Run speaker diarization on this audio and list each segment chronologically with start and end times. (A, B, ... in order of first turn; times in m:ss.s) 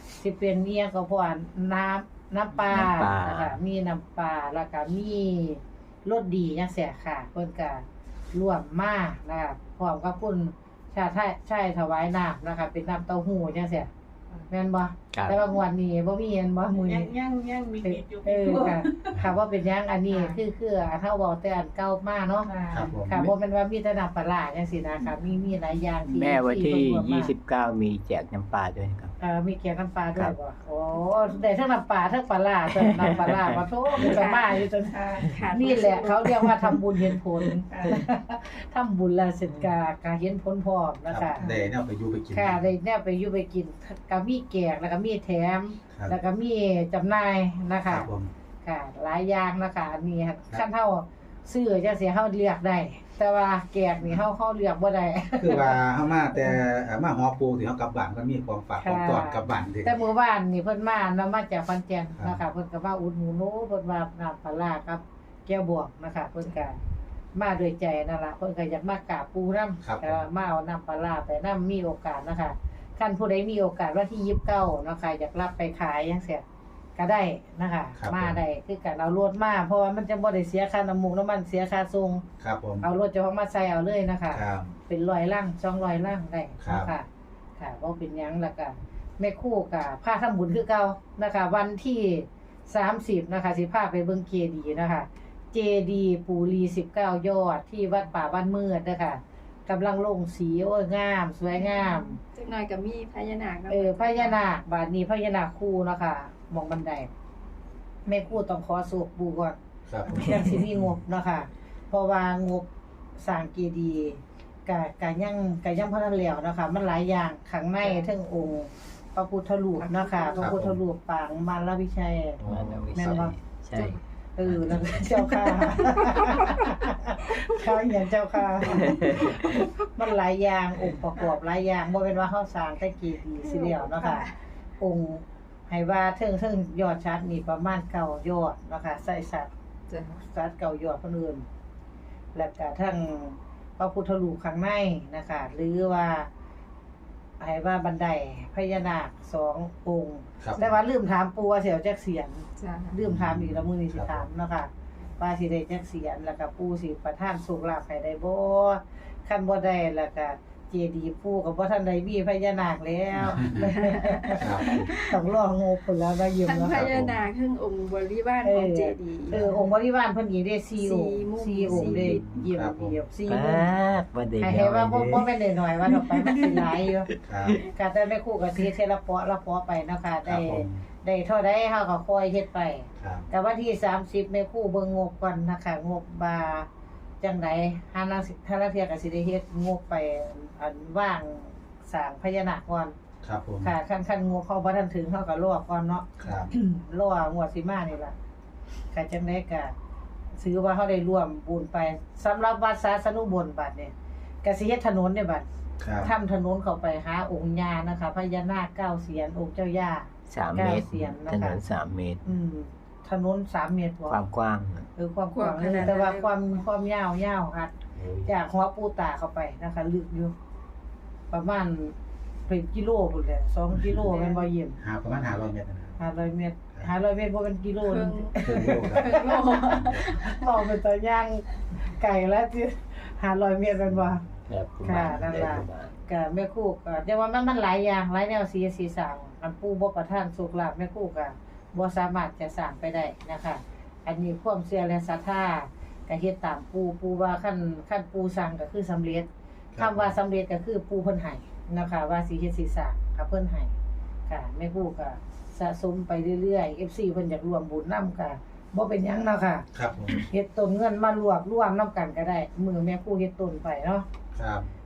0:00.2-0:13.9 A
0:02.6-0:03.6 B
0:14.5-0:17.1 A
0:15.1-0:15.5 B
0:16.8-0:19.2 C
0:17.8-0:22.5 A
0:20.1-0:20.4 C
0:22.5-0:23.0 C
0:22.7-0:23.2 D
0:23.1-0:27.3 A
0:26.1-0:29.1 B
0:29.2-0:41.5 A
0:32.8-0:33.4 B
0:34.0-0:34.5 E
0:34.9-0:35.2 C
0:35.2-0:36.2 E
0:37.7-0:38.0 C
0:41.1-0:42.6 D
0:42.3-0:48.1 A
0:47.9-0:48.3 D
0:48.6-0:55.8 A
0:55.4-1:00.0 D
0:58.8-1:06.8 A
1:07.4-1:16.4 A
1:09.8-1:10.2 D
1:17.0-1:22.2 A
1:18.0-1:18.4 D
1:22.4-1:22.9 D
1:22.8-1:27.1 A
1:24.3-1:24.8 D
1:26.6-1:26.9 D
1:27.6-1:42.2 A
1:41.5-1:44.4 E
1:43.7-1:47.1 A
1:48.1-2:02.4 A
1:49.9-1:50.3 D
1:59.8-2:00.5 E
2:00.4-2:00.8 D
2:02.4-2:03.0 D
2:02.5-2:05.2 B
2:02.9-2:03.4 A
2:03.7-2:04.0 E
2:04.4-2:14.3 A
2:05.3-2:07.4 E
2:08.7-2:09.4 B
2:08.8-2:09.7 E
2:13.4-2:14.4 E
2:14.8-2:19.5 A
2:19.9-2:20.2 E
2:20.2-2:21.5 A
2:22.3-2:26.3 A
2:27.4-2:46.9 A
2:30.4-2:30.7 D
2:32.6-2:33.0 E
2:33.0-2:34.3 D
2:43.2-2:43.6 D
2:43.7-2:45.0 E
2:44.4-2:44.9 D
2:46.4-2:49.6 E
2:46.7-2:47.2 D
2:48.4-2:53.7 A
2:50.8-2:52.2 E
2:52.2-2:53.0 D
2:53.3-2:55.3 B
2:54.4-2:57.1 A
2:55.9-2:57.6 B
2:57.2-2:57.6 D
2:57.6-3:06.7 A
3:00.3-3:00.8 D
3:03.0-3:03.3 D
3:07.2-3:13.0 A
3:13.2-3:13.7 D
3:13.6-3:18.2 A
3:16.2-3:16.5 D
3:18.9-3:19.7 A
3:20.4-3:25.5 A
3:25.8-3:26.1 D
3:26.0-3:31.6 A
3:30.3-3:32.2 B
3:32.2-3:34.2 A
3:34.1-3:34.9 B
3:35.0-3:37.7 A
3:35.3-3:36.3 E
3:38.0-3:38.3 B
3:38.2-3:40.3 A
3:41.3-3:41.9 A
3:42.5-3:44.8 A
3:44.1-3:44.5 E
3:44.8-3:46.0 D
3:46.0-3:49.4 A
3:47.8-3:50.5 E
3:48.4-3:50.2 D
3:50.0-3:54.3 A
3:54.5-3:55.9 B
3:54.8-4:13.7 A
4:09.8-4:10.1 D
4:14.3-4:24.1 A
4:19.7-4:20.2 D
4:24.3-4:24.7 D